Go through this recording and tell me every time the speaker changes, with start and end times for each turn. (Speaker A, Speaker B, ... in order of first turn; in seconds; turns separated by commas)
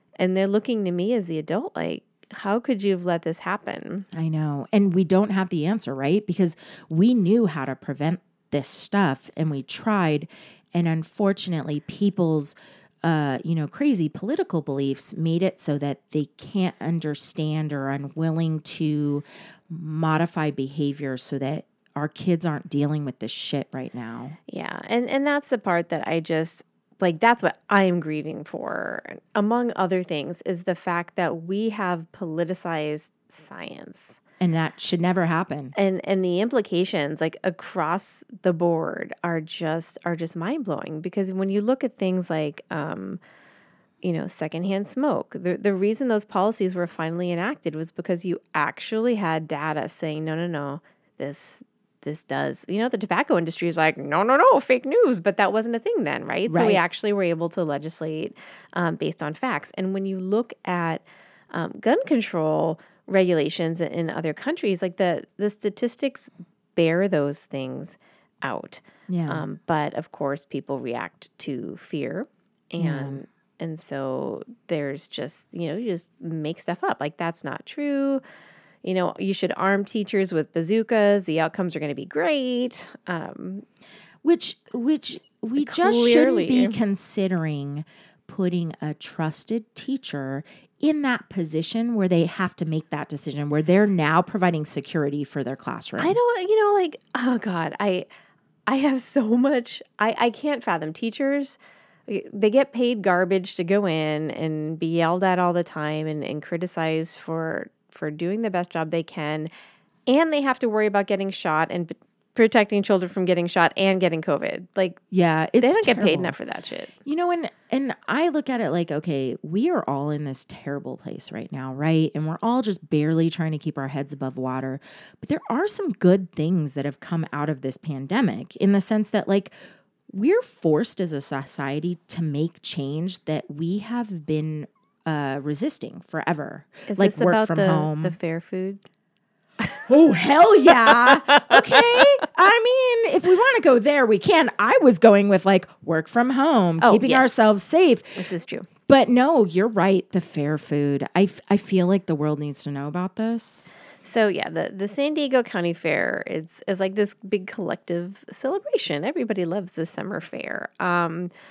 Speaker A: 0.2-4.0, Speaker B: 4.1-24.4, Speaker A: 24.5-34.2, Speaker B: 34.4-35.7, Speaker A: 35.8-43.2, Speaker A: 44.0-78.2, Speaker B: 56.5-56.8, Speaker B: 69.1-69.4, Speaker B: 72.8-73.2, Speaker A: 78.8-83.6, Speaker B: 84.2-96.2, Speaker A: 85.6-86.8, Speaker A: 96.0-98.1, Speaker A: 98.7-109.5, Speaker A: 110.1-115.0, Speaker B: 115.1-116.3, Speaker A: 115.6-116.9, Speaker B: 117.0-129.5, Speaker B: 130.1-138.2, Speaker A: 136.9-138.8, Speaker B: 139.9-148.2, Speaker A: 140.9-141.6, Speaker A: 146.8-147.3, Speaker A: 148.2-148.7, Speaker B: 148.9-153.7, Speaker A: 154.0-161.3